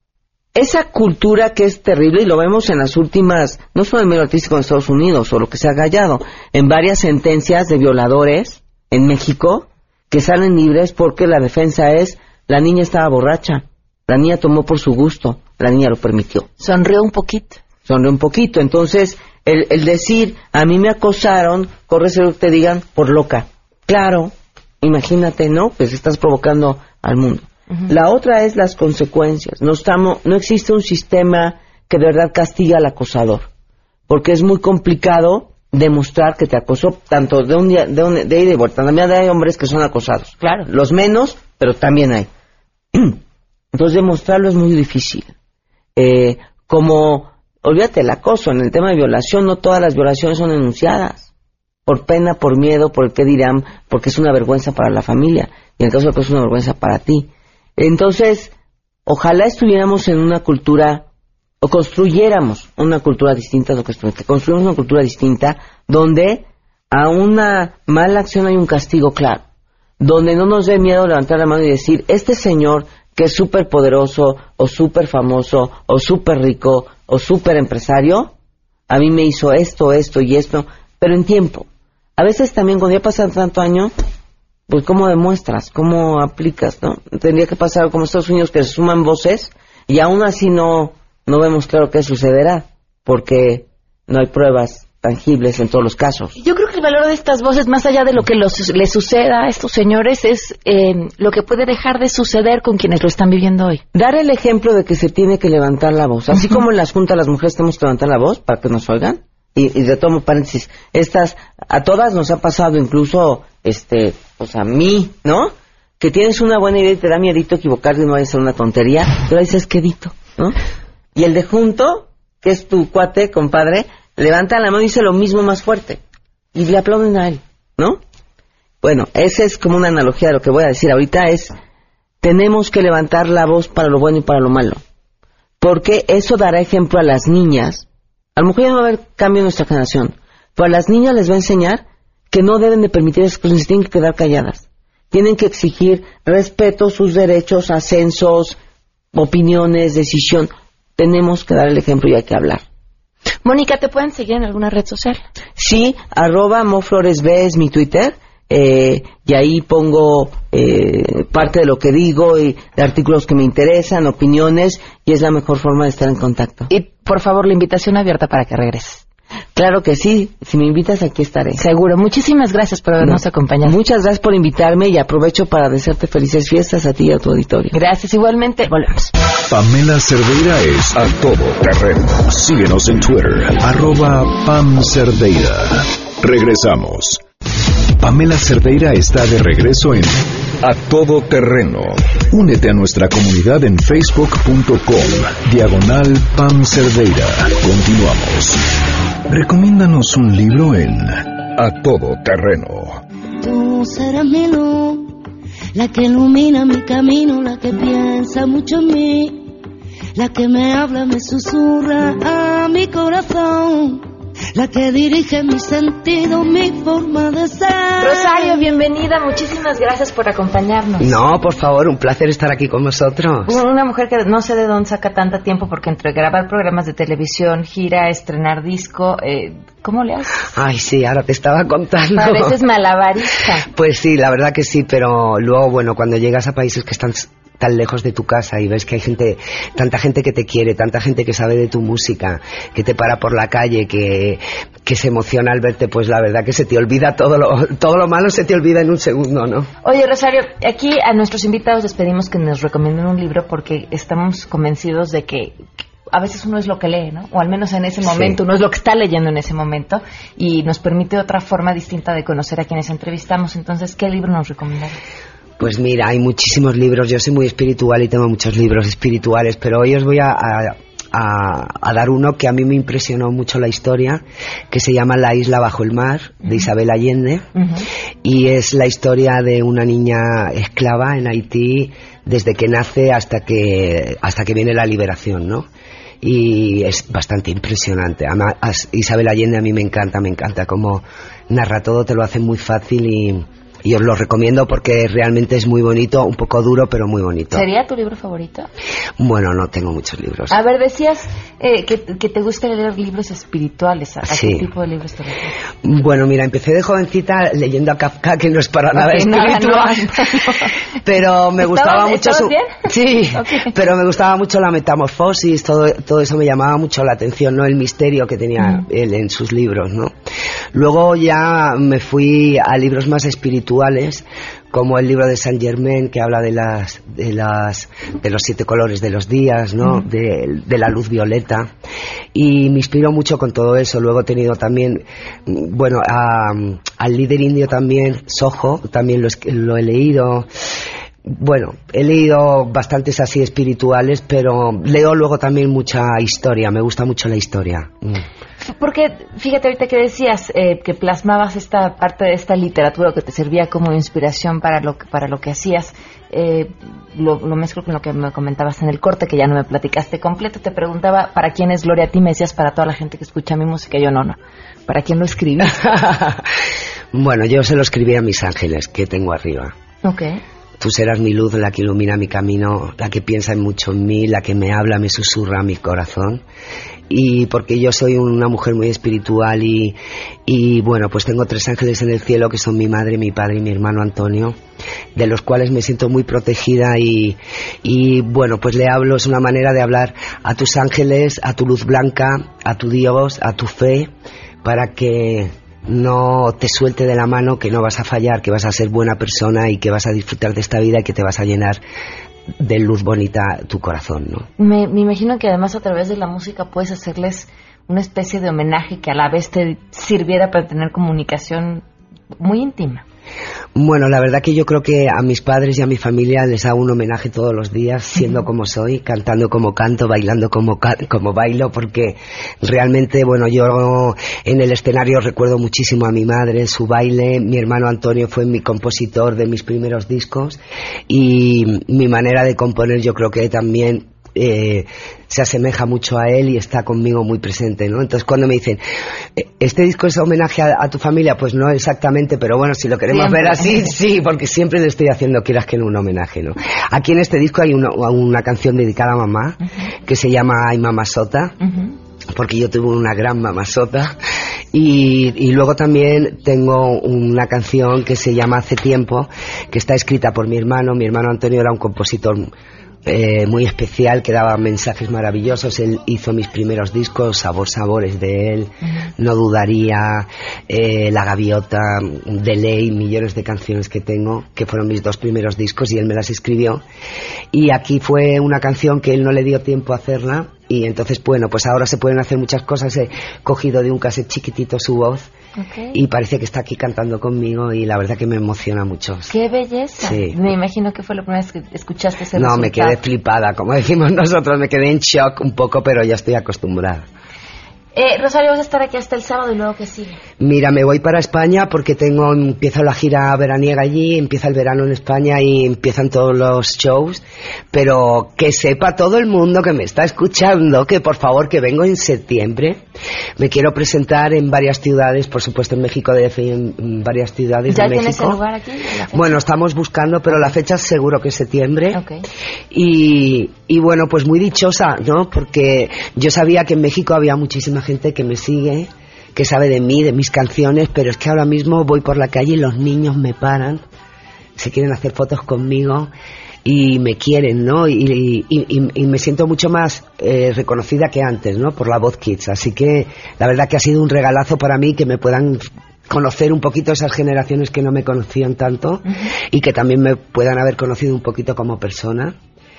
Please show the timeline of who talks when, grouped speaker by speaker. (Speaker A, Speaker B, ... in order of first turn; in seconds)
Speaker A: 0.5-16.5, 17.8-33.5, 34.1-42.3, 42.9-43.2, 43.7-45.3, 46.0-51.3, 51.9-58.5, 59.0-61.0, 61.6-69.4, 70.0-78.3, 78.9-81.7, 82.2-83.9, 84.7-96.3, 103.9-120.5, 121.2-126.0, 126.5-128.0, 128.8-131.5, 132.2-134.8, 135.6-148.6, 149.1-152.6, 155.6-166.7, 169.5-171.6, 173.0-177.8
Speaker B: 16.6-17.6, 40.4-40.7, 96.3-103.8, 153.4-155.2, 166.7-169.0, 171.5-173.8, 177.7-179.1, 218.0-221.2, 223.4-230.4, 232.2-233.7, 249.8-265.0, 277.6-277.8, 297.5-298.7, 300.5-305.5, 308.9-310.8, 311.6-313.7, 348.6-365.8, 370.0-370.4, 404.6-411.8, 412.4-413.0, 443.1-443.9, 485.6-486.0, 489.3-493.0, 497.9-500.2, 517.7-519.4, 521.9-522.2
Speaker C: 179.5-187.2, 188.0-198.6, 199.3-203.0
Speaker D: 203.4-205.2, 205.7-209.5, 210.2-218.8
Speaker E: 221.0-223.6, 230.5-232.5, 233.7-249.7, 258.0-258.4, 265.6-277.4, 278.2-285.6, 286.2-297.6, 299.2-300.6, 304.2-304.7, 305.8-310.2, 311.0-320.1, 320.7-331.7, 332.3-340.5, 341.3-348.2, 365.7-366.4, 367.1-369.7, 370.8-376.4, 377.1-384.6, 385.1-394.1, 394.6-401.8, 402.6-404.4, 413.8-438.8, 439.4-451.6, 452.3-454.1, 454.7-462.5, 463.1-476.8, 477.5-485.3, 485.9-489.3, 490.0-490.4, 492.3-497.0, 500.4-512.8, 513.4-518.4, 519.1-522.0, 522.7-533.8, 534.6-536.1, 536.6-552.3